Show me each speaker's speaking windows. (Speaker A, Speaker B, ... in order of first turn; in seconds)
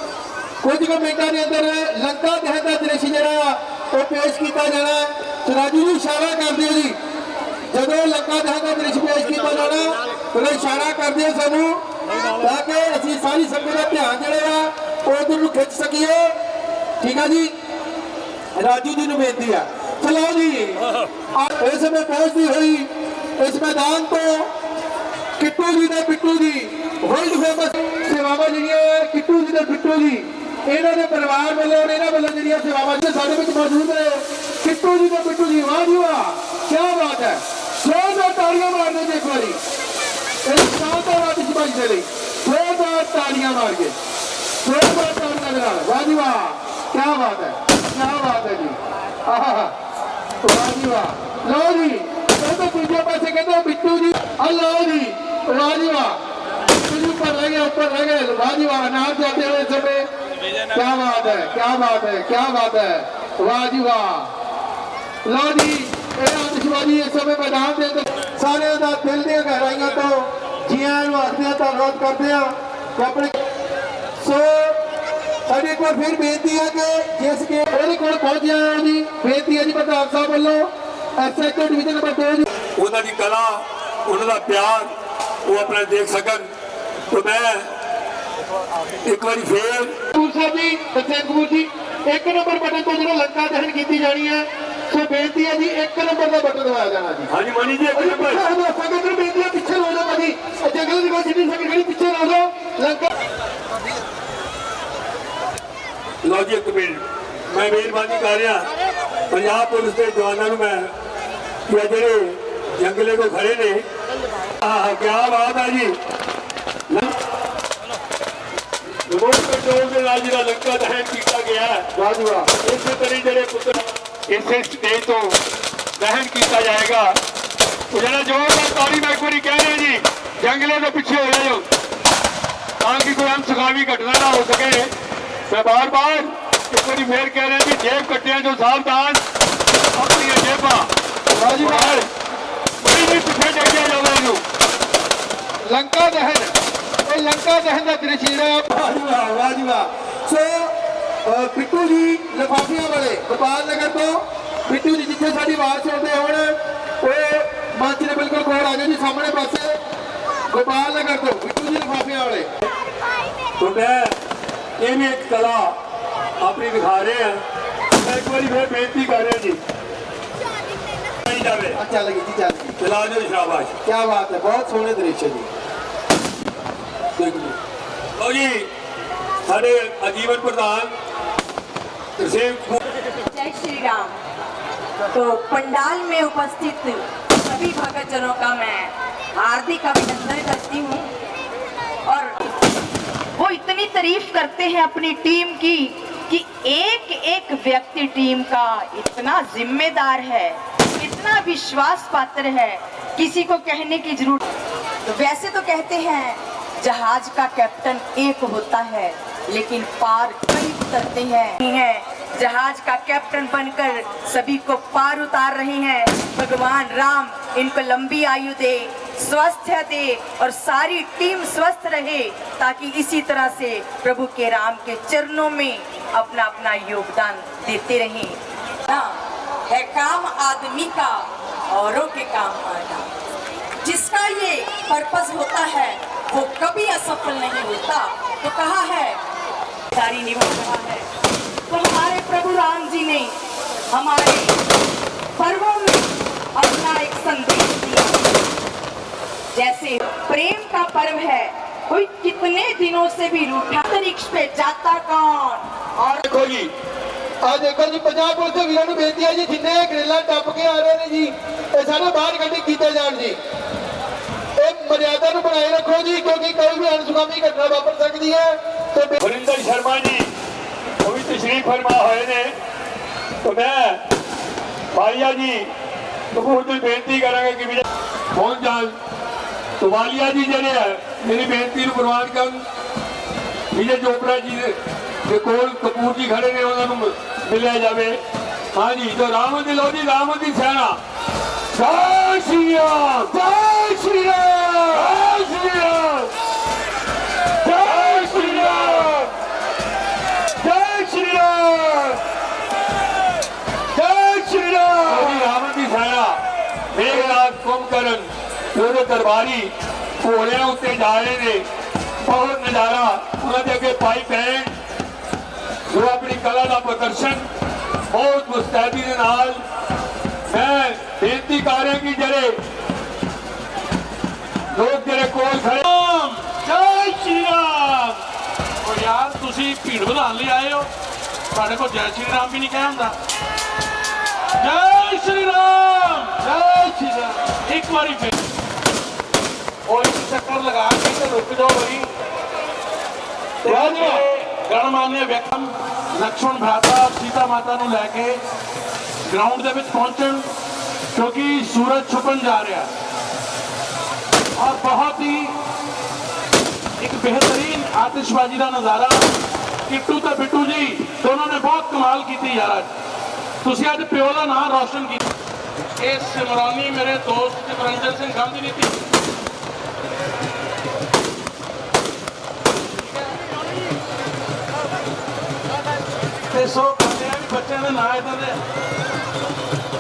Speaker A: 0.6-7.0, 7.7-11.8, 12.4-16.4, 17.0-17.5, 18.6-24.5, 25.4-39.6, 40.5-44.0, 44.6-49.7, 50.4-56.2, 56.8-60.1, 60.7-64.3, 65.2-73.4, 74.2-74.8, 75.5-82.5, 90.1-97.3, 97.9-103.1, 122.0-122.5, 141.3-142.0, 145.7-146.5, 147.1-150.7, 151.2-159.8, 160.5-162.5, 171.8-172.8, 173.8-175.5, 257.4-263.4, 264.6-269.2, 293.4-294.7, 304.0-305.0, 343.7-344.2
Speaker B: 82.8-84.9, 85.5-86.5, 87.1-87.7, 89.0-90.0, 97.3-98.4, 106.2-108.7, 109.3-110.9, 111.7-113.8, 114.6-116.0, 119.1-125.4, 126.0-127.2, 127.9-131.7, 132.8-134.9, 135.5-139.2, 139.9-140.9, 141.6-142.1, 142.8-144.4, 163.6-164.2, 164.8-165.8, 166.4-167.4, 168.0-169.6, 171.2-171.8, 172.8-173.7, 177.2-177.6, 178.2-178.7, 179.5-180.9, 182.2-182.8, 256.2-256.7, 269.2-270.3, 271.0-272.5, 273.4-274.0, 274.9-275.7, 276.3-279.0, 279.8-282.6, 283.7-288.2, 288.7-291.0, 291.7-293.4, 294.6-296.3, 297.7-299.2, 305.0-306.4, 306.9-311.7, 312.2-314.7, 315.9-317.5, 318.1-319.6, 320.5-322.6, 324.7-325.9, 326.6-328.1
Speaker C: 183.3-184.2, 185.1-191.1, 192.1-192.4, 193.4-204.4, 205.1-233.1, 233.8-239.2, 239.9-241.1, 241.7-243.4, 243.9-244.6, 245.4-248.2, 249.5-256.2
Speaker D: 325.9-326.6, 328.8-330.9, 331.5-333.2, 334.6-338.4, 339.9-342.1, 343.6-348.4, 349.3-350.4, 351.1-352.9, 354.6-355.6, 357.0-359.3, 359.9-362.9, 363.6-365.2, 366.0-369.0, 376.5-378.6